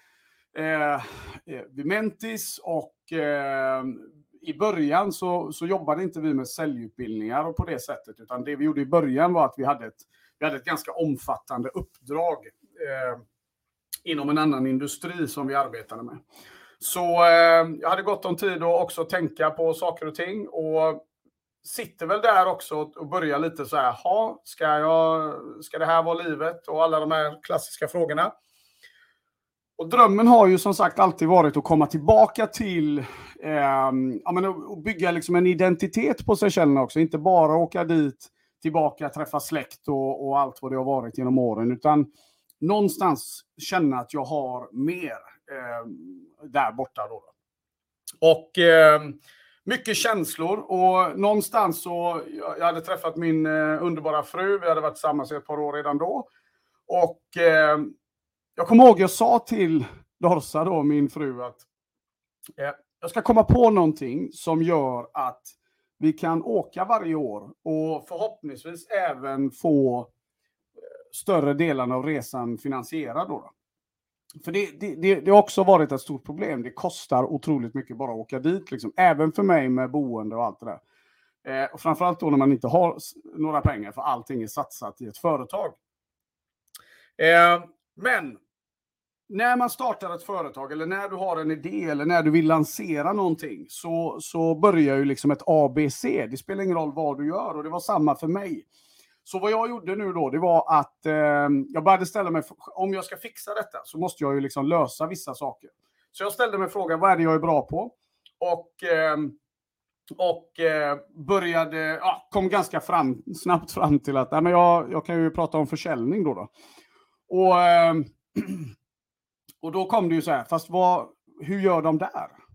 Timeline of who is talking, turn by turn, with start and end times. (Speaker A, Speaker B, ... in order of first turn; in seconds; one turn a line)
Speaker A: 0.5-13.2
Speaker A: 14.1-16.2
Speaker A: 16.8-21.0
Speaker A: 21.6-28.3
Speaker A: 29.8-42.1
Speaker A: 42.6-47.3
Speaker A: 48.2-56.3
Speaker A: 56.9-57.9
Speaker A: 58.6-61.6
Speaker A: 62.6-70.1
Speaker A: 71.1-73.5
Speaker A: 74.4-80.8
Speaker A: 81.4-85.8
Speaker A: 87.2-88.4
Speaker A: 89.3-98.7
Speaker A: 99.2-109.4
Speaker A: 110.2-116.5
Speaker A: 117.3-118.7
Speaker A: 119.6-122.4